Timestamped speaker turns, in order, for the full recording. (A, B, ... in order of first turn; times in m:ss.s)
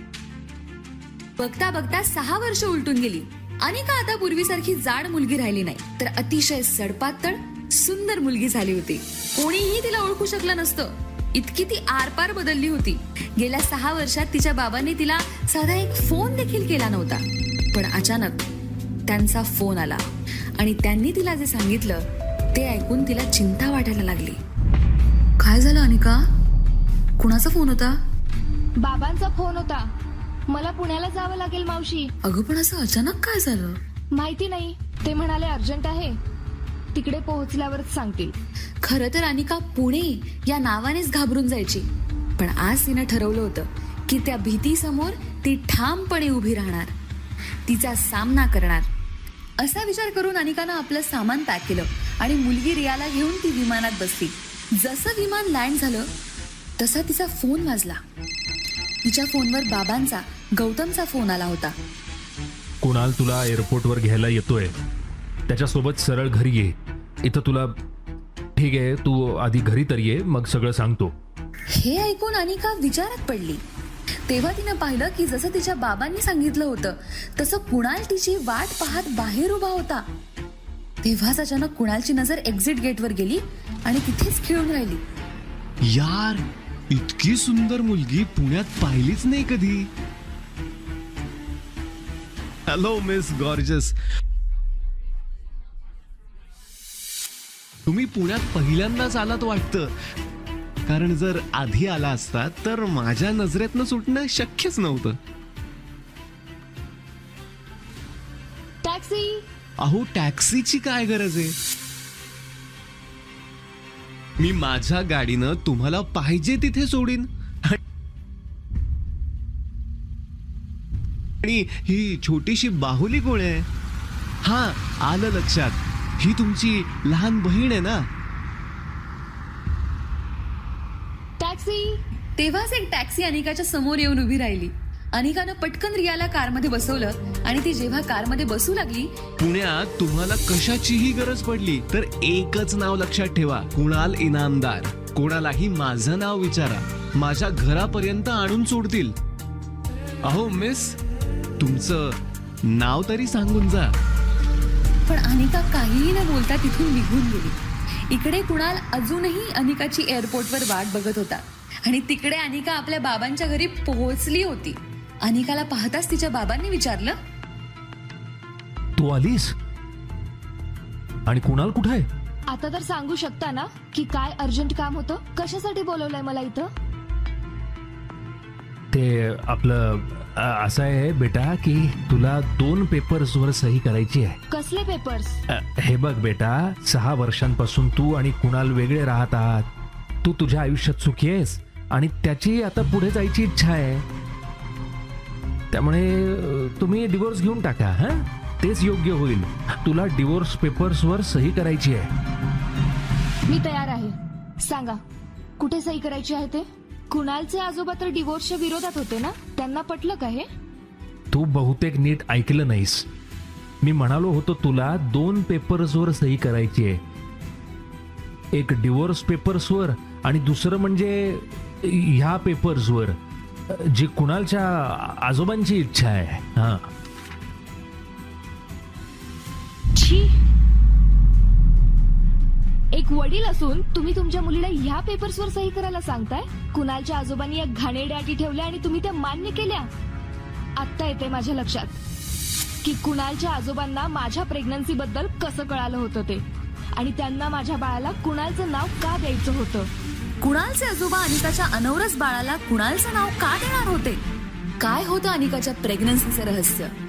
0:01.4-0:18.5 A
0:19.1-0:20.0 A
0:20.6-0:24.4 A
0:25.4-0:26.2 A
0:27.2-0:28.0 A
0:28.8-0:29.8 B
0:30.5-0:32.1 B
0:32.2-0:33.8 A
0:34.2-0:36.2 B
0:37.0-0:38.4 B
0:38.8-0:41.8 A
0:42.4-0:46.9 A
0:47.7-0:48.9 A
0:49.6-0:56.1 A
0:56.8-0:58.0 A
0:59.1-1:01.8 A
1:02.8-1:04.8 C
1:05.5-1:07.8 C
1:08.6-1:11.1 C
1:11.8-1:13.6 A
1:14.3-1:20.0 A
1:21.0-1:25.0 A
1:25.8-1:29.9 D
1:32.7-1:34.0 D
1:37.9-1:39.9 D
1:40.9-1:45.2 D
1:48.8-1:49.4 B
1:49.8-1:51.6 D
1:54.4-1:57.8 D
2:01.4-2:03.7 D
2:04.4-2:08.0 D
2:11.4-2:12.0 B
2:12.4-2:19.1 A
2:19.4-2:29.2 D
2:30.2-2:31.0 D
2:31.6-2:34.0 D
2:35.1-2:37.6 A
2:38.1-2:47.2 A
2:49.0-2:49.5 C
2:51.3-2:52.1 C
2:52.5-2:56.7 B
2:58.9-3:04.4 C
3:04.5-3:05.4 B
3:05.5-3:09.7 C
3:10.2-3:14.0 C
3:15.7-3:22.1 C
3:23.5-3:25.0 B
3:25.6-3:30.5 B
3:31.3-3:33.1 C
3:33.8-3:37.0 C
3:38.5-3:43.2 C
3:43.7-3:46.9 C
3:49.9-3:50.3 B
3:52.9-3:59.9 B
4:00.8-4:02.0 B
4:02.8-4:06.4 B
4:07.0-4:09.9 B
4:10.4-4:14.2 A
4:14.8-4:16.9 A